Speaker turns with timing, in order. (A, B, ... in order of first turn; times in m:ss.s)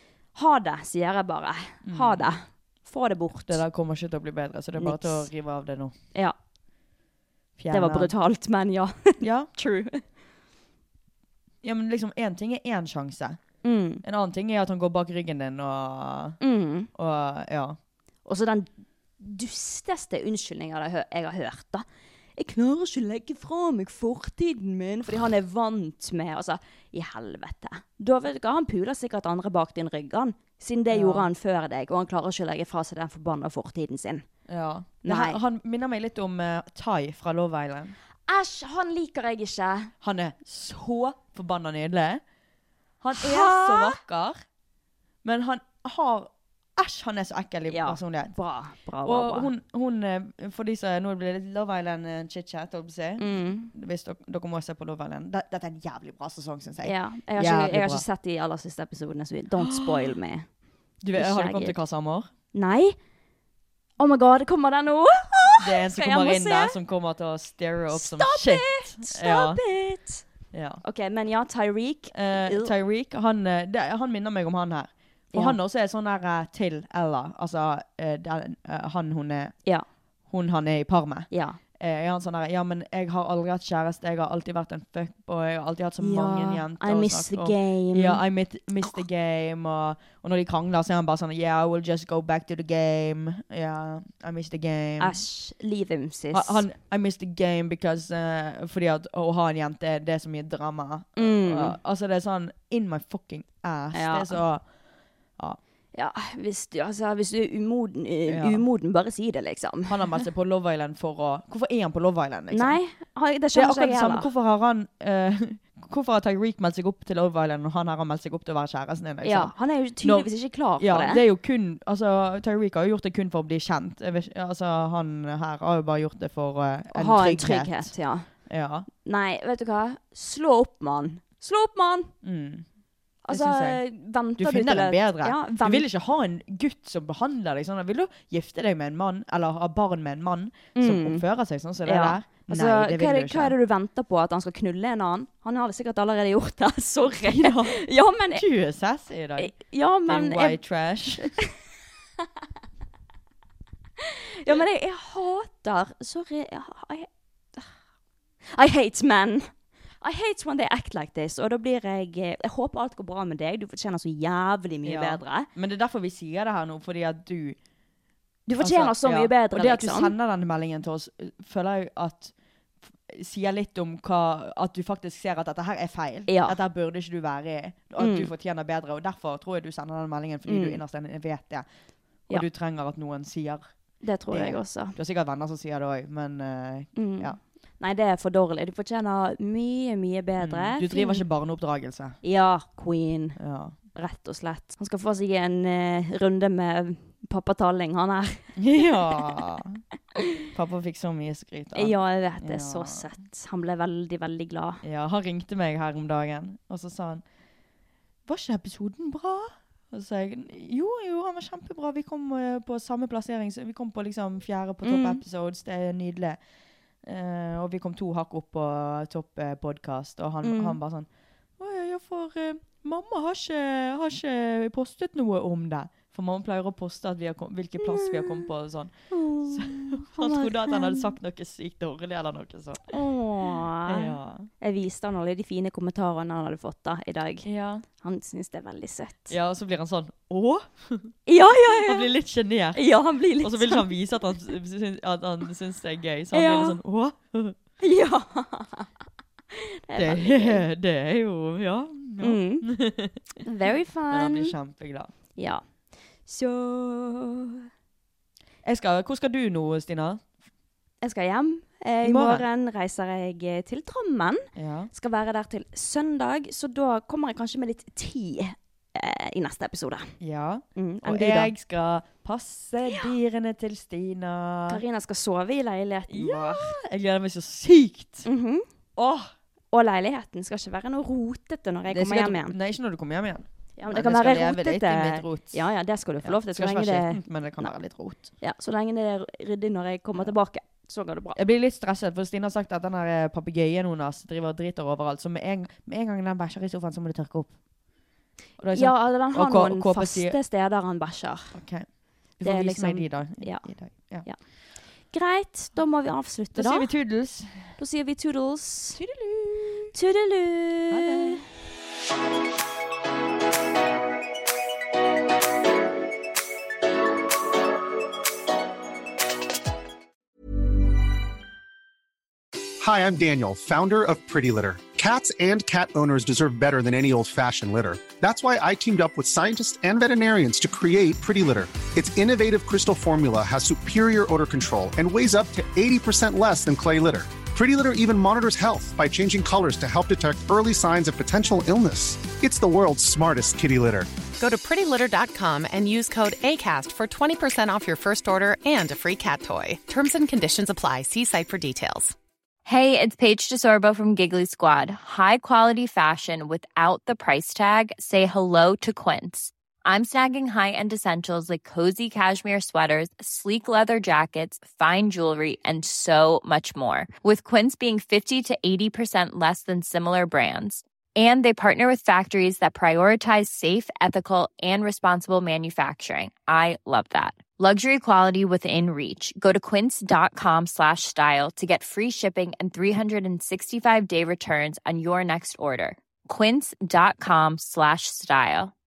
0:00.4-0:03.6 A
0:01.8-0:02.3 B
0:03.5-0:05.9 B
0:04.8-0:05.3 A
0:07.6-0:08.1 B
0:07.7-0:10.0 A
0:09.2-0:09.5 B
0:11.6-0:13.4 B
0:13.6-0:14.0 A
0:14.0-0:16.4 B
0:16.4-0:16.9 A
0:16.9-0:17.8 B
0:18.2-0:21.8 A
0:22.4-0:34.2 A
0:30.9-0:31.3 B
0:34.5-0:38.0 B
0:35.0-0:35.4 A
0:38.3-0:39.9 A
0:40.0-0:42.2 B
0:43.0-0:44.4 B
0:43.2-0:44.0 A
0:45.2-0:48.4 B
0:47.7-0:49.5 A
0:49.0-0:58.0 B
0:53.2-0:53.7 A
0:56.8-1:00.5 A
0:59.6-1:00.1 B
1:01.0-1:02.3 B
1:01.2-1:01.8 A
1:02.5-1:03.0 A
1:04.0-1:06.8 A
1:05.6-1:09.6 B
1:07.9-1:10.2 A
1:10.5-1:10.8 B
1:10.8-1:12.7 A
1:12.1-1:19.6 B
1:20.3-1:35.2 B
1:21.3-1:21.6 A
1:26.0-1:28.2 A
1:35.0-1:36.6 A
1:36.3-1:44.6 B
1:41.2-1:41.8 A
1:43.9-1:44.4 A
1:45.9-1:50.1 A
1:48.3-1:48.6 B
1:49.9-1:52.8 B
1:52.5-1:54.3 A
1:53.5-2:07.9 B
1:59.2-2:01.2 A
2:06.9-2:08.3 A
2:08.5-2:08.9 B
2:09.0-2:12.1 A
2:12.2-2:12.7 B
2:13.3-2:15.9 A
2:13.3-2:13.8 B
2:14.4-2:23.6 B
2:20.8-2:21.2 A
2:21.8-2:28.4 A
2:27.2-2:27.8 B
2:28.3-2:31.4 B
2:29.4-2:30.6 A
2:31.2-2:31.5 A
2:34.0-2:37.7 A
2:38.5-2:45.5 A
2:44.8-2:47.6 B
2:48.5-2:50.1 A
2:48.6-2:52.3 B
2:53.1-3:01.7 B
2:56.3-2:56.6 A
2:58.0-2:58.3 A
3:00.5-3:00.8 A
3:02.3-3:03.7 B
3:04.0-3:05.0 A
3:04.3-3:07.4 B
3:07.0-3:11.2 A
3:10.4-3:12.2 B
3:12.2-3:13.4 A
3:13.4-3:13.8 B
3:14.0-3:19.3 A
3:18.6-3:19.8 B
3:20.4-3:23.0 B
3:21.8-3:24.8 A
3:24.8-3:27.2 B
3:28.3-3:36.4 B
3:34.8-3:35.2 A
3:37.0-3:41.1 B
3:40.4-3:40.8 A
3:41.6-3:53.0 B
3:47.8-3:48.5 A
3:49.1-3:51.1 A
3:52.9-3:57.5 A
3:53.9-3:54.5 B
3:57.4-3:57.8 B
3:58.0-3:59.4 A
3:59.3-4:01.1 B
4:01.3-4:02.1 A
4:01.7-4:02.8 B
4:02.8-4:03.9 A
4:03.4-4:07.6 B
4:06.3-4:06.8 A
4:07.8-4:08.9 A
4:09.5-4:10.6 A
4:10.0-4:13.4 B
4:12.2-4:12.7 A
4:13.4-4:14.6 A
4:14.1-4:15.1 B
4:15.4-4:15.6 A
4:16.3-4:17.6 A
4:18.6-4:20.2 B
4:21.0-4:30.2 A
4:22.0-4:22.5 B
4:24.6-4:24.9 B
4:30.2-4:34.8 B
4:30.8-4:31.5 A
4:34.7-4:36.7 A
4:36.1-4:38.3 B
4:38.2-4:38.6 A
4:39.0-4:39.3 B
4:39.7-4:42.6 A
4:41.9-4:45.6 B
4:43.8-4:47.7 A
4:46.2-4:48.3 B
4:48.4-4:51.4 A
4:51.4-4:57.5 B
4:58.6-5:00.4 B
4:58.7-5:01.5 A
5:01.5-5:01.9 B
5:02.4-5:04.3 B
5:02.4-5:03.7 A
5:05.1-5:06.9 A
5:06.5-5:07.8 B
5:07.8-5:09.0 A
5:08.9-5:09.9 B
5:09.9-5:11.4 A
5:10.9-5:11.4 B
5:22.8-5:44.1 C
5:44.4-5:52.2 D
5:52.7-6:28.7 E